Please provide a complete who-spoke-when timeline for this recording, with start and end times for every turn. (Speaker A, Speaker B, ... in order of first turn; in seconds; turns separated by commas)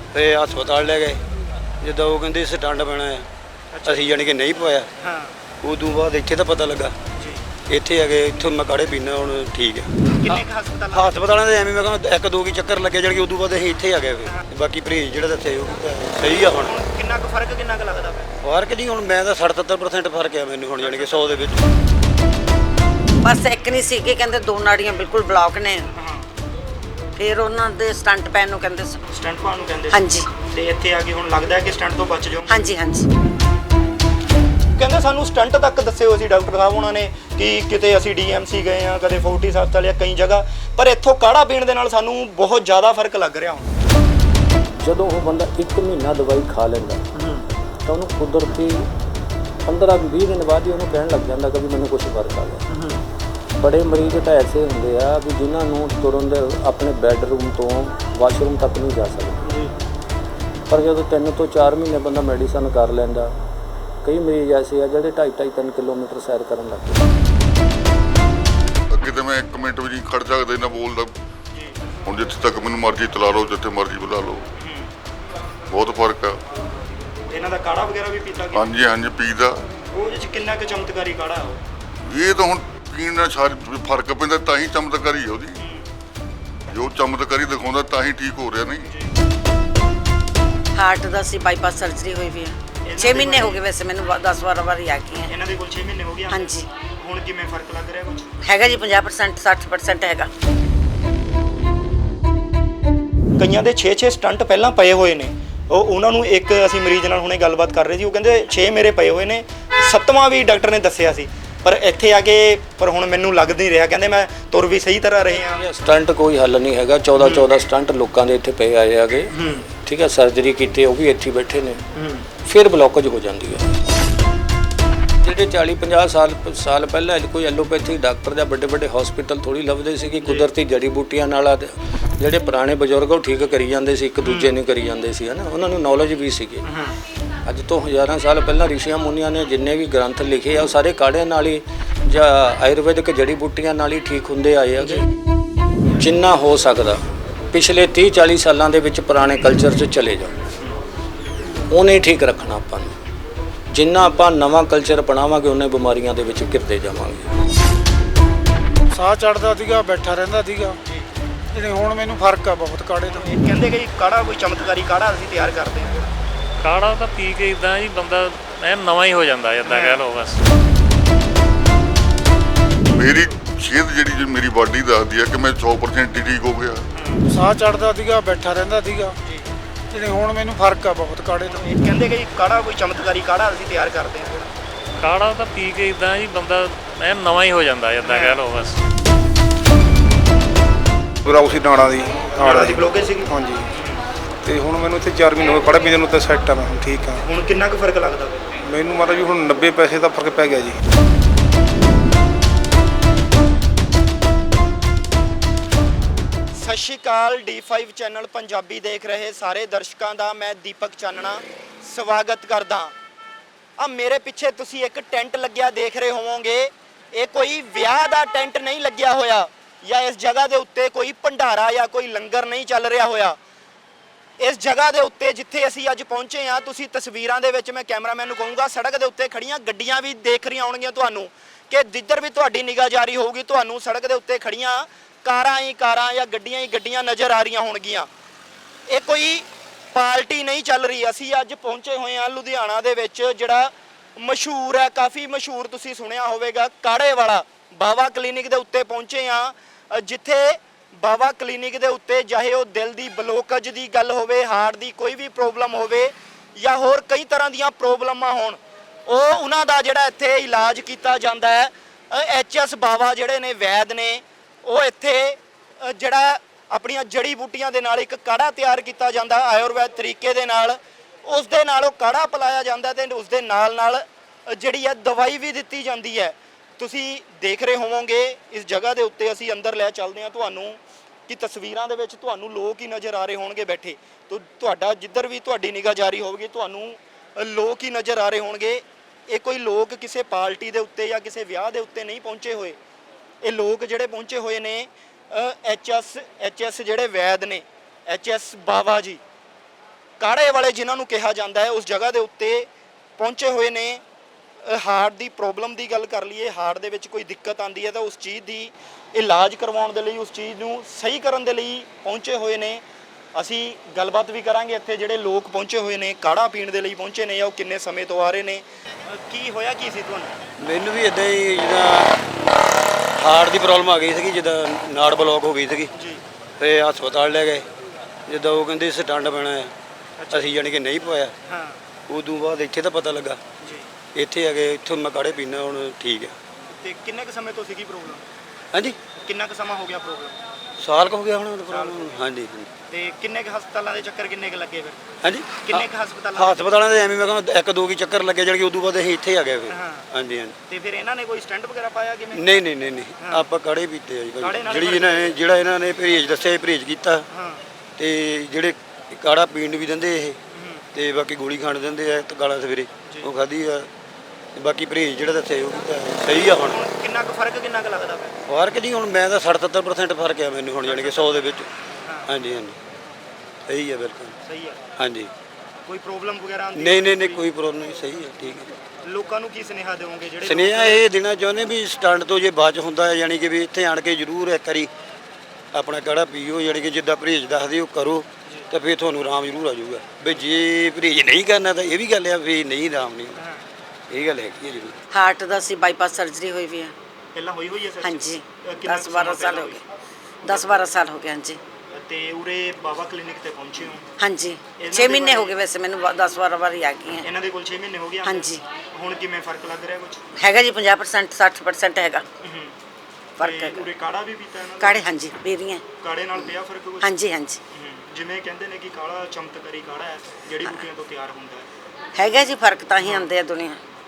Speaker A: 0.1-1.2, Speaker A: 1.8-3.3, Speaker B: 3.7-4.1, Speaker A: 3.9-4.9, Speaker B: 5.0-5.4, Speaker A: 5.6-7.0, Speaker B: 7.2-7.4, Speaker A: 7.7-16.8, Speaker B: 10.1-11.2, Speaker B: 16.2-18.3, Speaker A: 18.4-21.6, Speaker B: 20.8-21.4, Speaker C: 23.2-25.9, Speaker B: 26.0-26.3, Speaker C: 27.2-29.0, Speaker B: 29.1-32.7, Speaker C: 29.9-30.3, Speaker C: 32.5-33.1, Speaker B: 34.8-43.7, Speaker D: 44.8-47.0, Speaker D: 47.9-48.9, Speaker D: 49.7-52.6, Speaker B: 52.7-53.0, Speaker D: 53.6-59.4, Speaker B: 59.5-59.7, Speaker D: 60.7-63.3, Speaker D: 64.0-67.1, Speaker E: 68.9-71.1, Speaker E: 72.1-74.4, Speaker B: 74.6-74.9, Speaker E: 75.7-76.4, Speaker B: 77.3-78.7, Speaker E: 78.5-79.6, Speaker B: 79.9-81.6, Speaker E: 82.1-85.6, Speaker B: 85.6-85.8, Speaker E: 86.7-88.9, Speaker B: 88.9-89.1, Speaker C: 90.7-95.3, Speaker B: 92.8-93.6, Speaker B: 95.3-98.3, Speaker C: 96.3-96.7, Speaker C: 98.4-100.3, Speaker B: 103.4-115.7, Speaker D: 115.4-121.8, Speaker B: 117.2-117.5, Speaker B: 119.3-119.7, Speaker B: 122.0-122.3, Speaker D: 122.4-123.8, Speaker D: 125.2-136.7, Speaker B: 134.2-134.5, Speaker B: 136.6-136.9, Speaker D: 137.5-145.0, Speaker D: 146.0-150.4, Speaker D: 151.7-153.0, Speaker D: 153.7-157.3, Speaker F: 158.9-160.8, Speaker F: 161.5-163.3, Speaker B: 163.1-166.1, Speaker G: 166.6-170.4, Speaker B: 169.7-170.0, Speaker E: 172.9-176.8, Speaker B: 176.9-177.2, Speaker F: 177.3-179.2, Speaker B: 179.2-179.5, Speaker F: 179.9-181.7, Speaker B: 181.5-184.5, Speaker G: 185.0-188.8, Speaker B: 188.0-188.4, Speaker H: 191.2-193.7, Speaker B: 192.4-194.0, Speaker H: 194.4-197.2, Speaker B: 197.2-198.5, Speaker H: 198.7-200.8, Speaker B: 206.5-212.9, Speaker B: 213.8-223.4, Speaker B: 224.4-238.1, Speaker B: 238.9-292.8, Speaker B: 293.4-299.2, Speaker B: 300.2-304.0, Speaker B: 304.6-312.8, Speaker B: 313.4-320.4, Speaker A: 320.6-322.1, Speaker A: 323.2-325.9, Speaker B: 325.9-326.2, Speaker A: 326.6-327.6, Speaker A: 328.3-329.7, Speaker B: 330.2-330.5, Speaker A: 330.3-331.3, Speaker B: 331.5-331.8, Speaker A: 332.1-333.4, Speaker B: 333.6-333.9, Speaker A: 334.1-336.4, Speaker B: 336.8-338.3, Speaker A: 338.7-339.0, Speaker B: 339.1-340.4, Speaker A: 340.8-342.7, Speaker B: 341.7-342.1, Speaker B: 342.9-345.0, Speaker A: 345.2-350.6, Speaker B: 345.5-346.6, Speaker B: 349.7-350.1, Speaker B: 350.7-352.4, Speaker A: 352.4-357.3, Speaker B: 353.2-353.4, Speaker B: 354.4-355.3, Speaker B: 357.3-357.6, Speaker A: 358.0-360.4, Speaker B: 360.5-360.8, Speaker A: 360.9-363.9, Speaker A: 364.6-366.8, Speaker B: 366.3-368.4, Speaker A: 368.5-371.7, Speaker B: 370.9-371.4, Speaker A: 372.3-372.8, Speaker A: 373.7-374.4, Speaker B: 374.4-374.9, Speaker A: 375.0-375.3, Speaker B: 375.9-377.4, Speaker A: 376.8-378.7, Speaker B: 379.1-381.0, Speaker A: 380.4-384.9, Speaker A: 385.7-393.4, Speaker B: 393.4-393.6, Speaker A: 394.1-395.0, Speaker C: 395.1-396.9, Speaker B: 397.4-399.8, Speaker C: 398.0-399.8, Speaker C: 400.4-401.6, Speaker B: 400.5-400.9, Speaker B: 401.9-404.1, Speaker C: 404.2-407.3, Speaker B: 404.8-405.6, Speaker B: 407.2-410.2, Speaker C: 408.2-408.6, Speaker C: 410.4-412.2, Speaker B: 412.4-412.7, Speaker C: 413.4-413.9, Speaker B: 413.4-415.1, Speaker C: 414.8-415.8, Speaker B: 416.0-417.1, Speaker C: 417.0-417.6, Speaker B: 417.7-421.7, Speaker C: 422.2-423.8, Speaker B: 423.0-423.3